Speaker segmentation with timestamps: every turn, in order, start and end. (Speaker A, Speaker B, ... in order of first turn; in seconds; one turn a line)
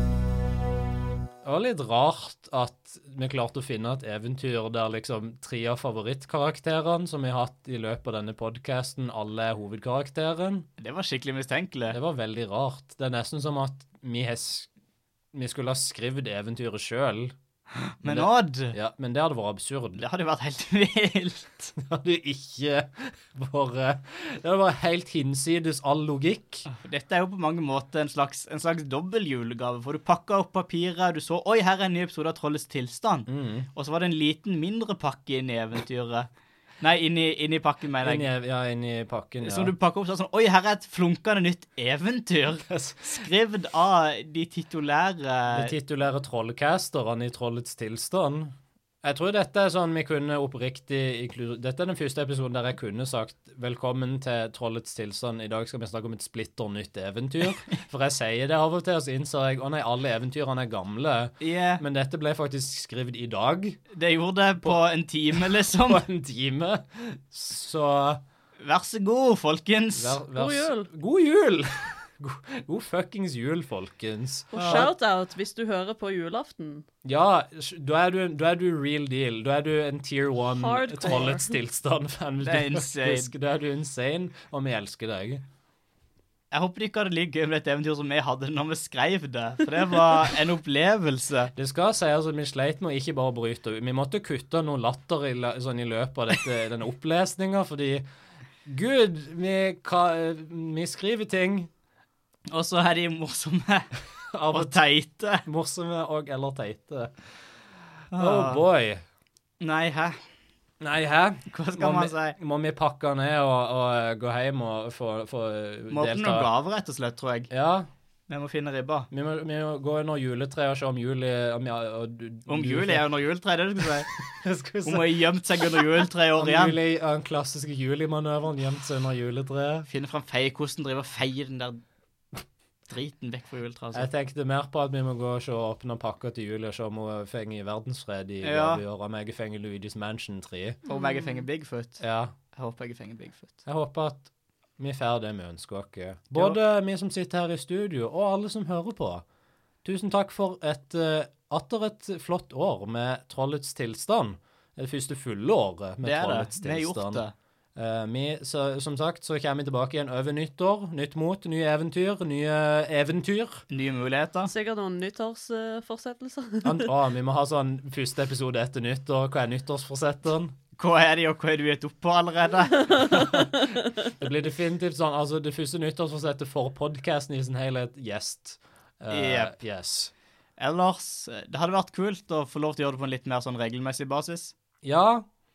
Speaker A: 1.4-10.7
Speaker B: 10.8-12.0
Speaker A: 11.9-14.7
Speaker A: 15.3-17.3
Speaker B: 18.0-18.8
Speaker A: 18.0-20.0
Speaker B: 20.0-21.7
Speaker A: 21.8-26.6
Speaker B: 26.7-36.3
Speaker A: 33.3-33.7
Speaker B: 36.8-38.3
Speaker A: 38.0-39.7
Speaker B: 39.4-45.7
Speaker A: 42.7-43.2
Speaker A: 45.5-63.8
Speaker B: 61.4-61.8
Speaker B: 63.9-66.0
Speaker A: 65.6-68.2
Speaker B: 68.6-70.2
Speaker A: 69.9-74.9
Speaker C: 70.3-70.9
Speaker C: 74.5-76.8
Speaker B: 74.5-74.9
Speaker A: 77.0-85.4
Speaker C: 80.5-81.5
Speaker B: 82.4-83.3
Speaker B: 86.5-91.5
Speaker A: 91.5-98.0
Speaker A: 98.7-101.7
Speaker B: 102.5-103.9
Speaker A: 104.3-104.8
Speaker B: 104.5-105.4
Speaker A: 105.4-107.1
Speaker B: 108.1-108.6
Speaker A: 108.1-109.0
Speaker B: 109.6-110.2
Speaker A: 110.8-116.5
Speaker B: 111.5-112.4
Speaker B: 115.9-117.5
Speaker A: 117.5-117.9
Speaker B: 118.3-119.1
Speaker A: 119.1-123.0
Speaker B: 122.5-124.1
Speaker A: 124.2-129.9
Speaker B: 124.8-126.8
Speaker B: 129.9-131.8
Speaker B: 132.9-134.1
Speaker A: 133.9-140.8
Speaker B: 138.4-138.8
Speaker B: 140.9-143.6
Speaker C: 140.9-141.4
Speaker A: 142.0-142.3
Speaker A: 143.7-149.2
Speaker A: 149.8-157.2
Speaker B: 156.0-157.3
Speaker A: 157.8-163.6
Speaker B: 163.7-164.5
Speaker C: 164.5-166.9
Speaker A: 166.6-170.6
Speaker B: 170.8-173.3
Speaker A: 173.1-180.1
Speaker B: 179.1-179.5
Speaker B: 180.6-184.5
Speaker A: 184.8-185.2